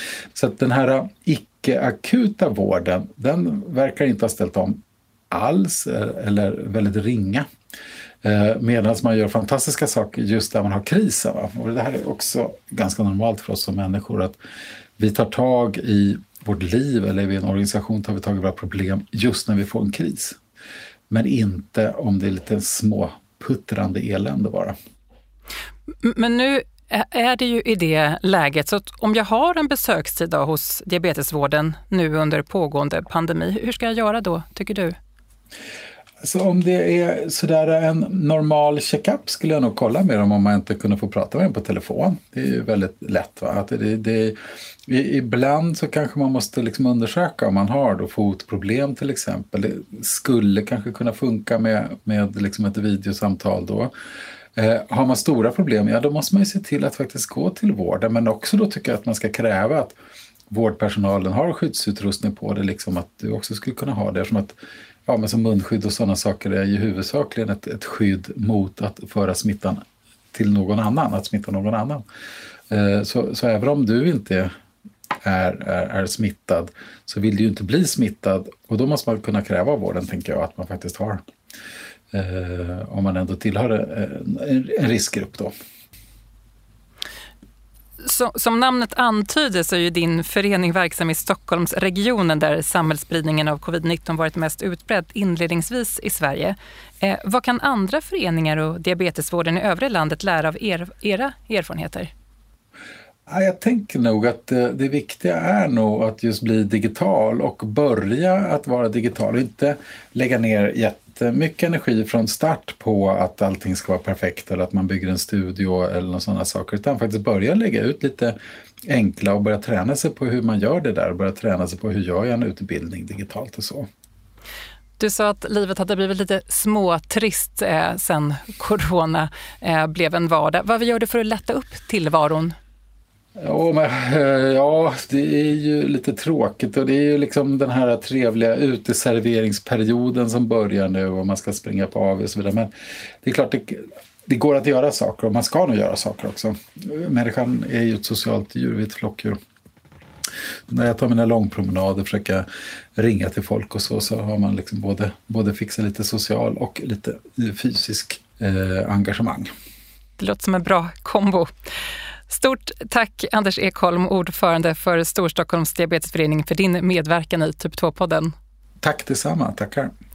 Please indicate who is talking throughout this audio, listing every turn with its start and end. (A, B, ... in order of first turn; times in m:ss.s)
0:00.3-0:07.5 A
0:08.2-0:14.4 A
0:15.0-0:20.4 A
0:21.1-0:24.7 A
0:26.0-0:34.9 B
0:36.2-0:53.9 A
0:54.5-0:59.9 A
1:00.5-1:04.5 A
1:05.0-1:12.0 A
1:12.7-1:14.5 A
1:15.2-1:21.2 A
1:22.1-1:25.5 A
1:28.0-1:42.1 B
1:43.3-1:58.4 A
1:58.9-2:03.9 A
2:05.0-2:12.6 B
2:13.4-2:22.7 A
2:23.2-2:29.4 A
2:30.7-2:39.5 A
2:40.2-2:41.5 B
2:42.3-2:48.3 B
2:48.8-2:49.9 A